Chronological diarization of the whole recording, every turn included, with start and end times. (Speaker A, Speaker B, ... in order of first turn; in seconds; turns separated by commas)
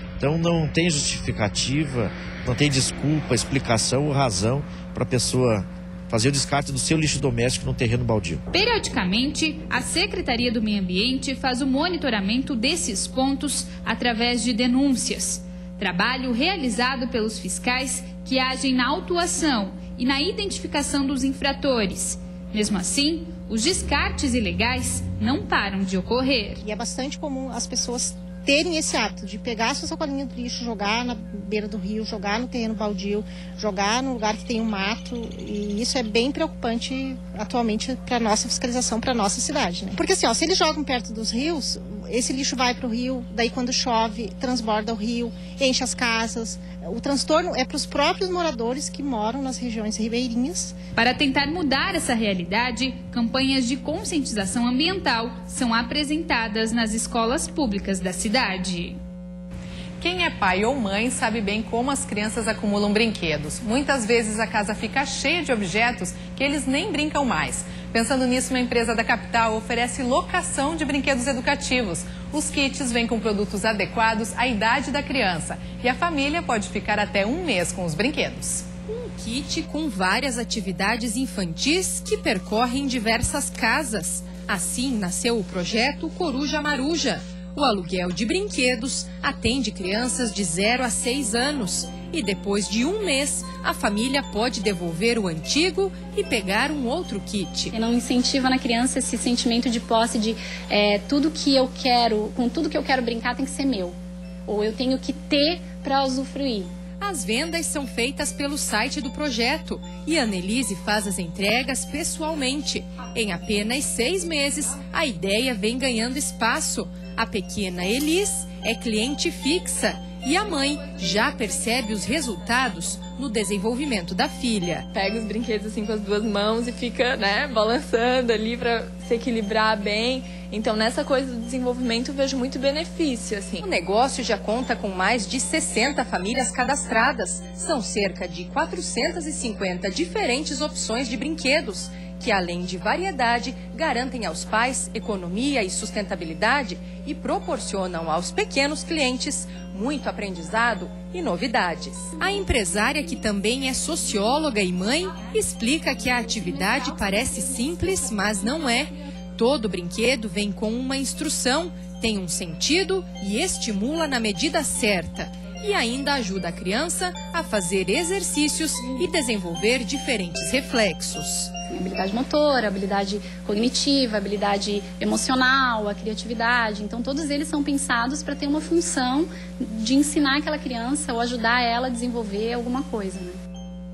Speaker A: 0.2-8.4, Speaker B: 8.5-26.6, Speaker C: 26.6-50.7, Speaker B: 51.0-59.0, Speaker D: 60.0-78.6, Speaker E: 79.0-97.7, Speaker F: 97.7-104.0, Speaker F: 104.5-106.7, Speaker E: 107.0-124.8, Speaker G: 124.9-133.6, Speaker E: 133.7-171.5, Speaker F: 171.7-183.4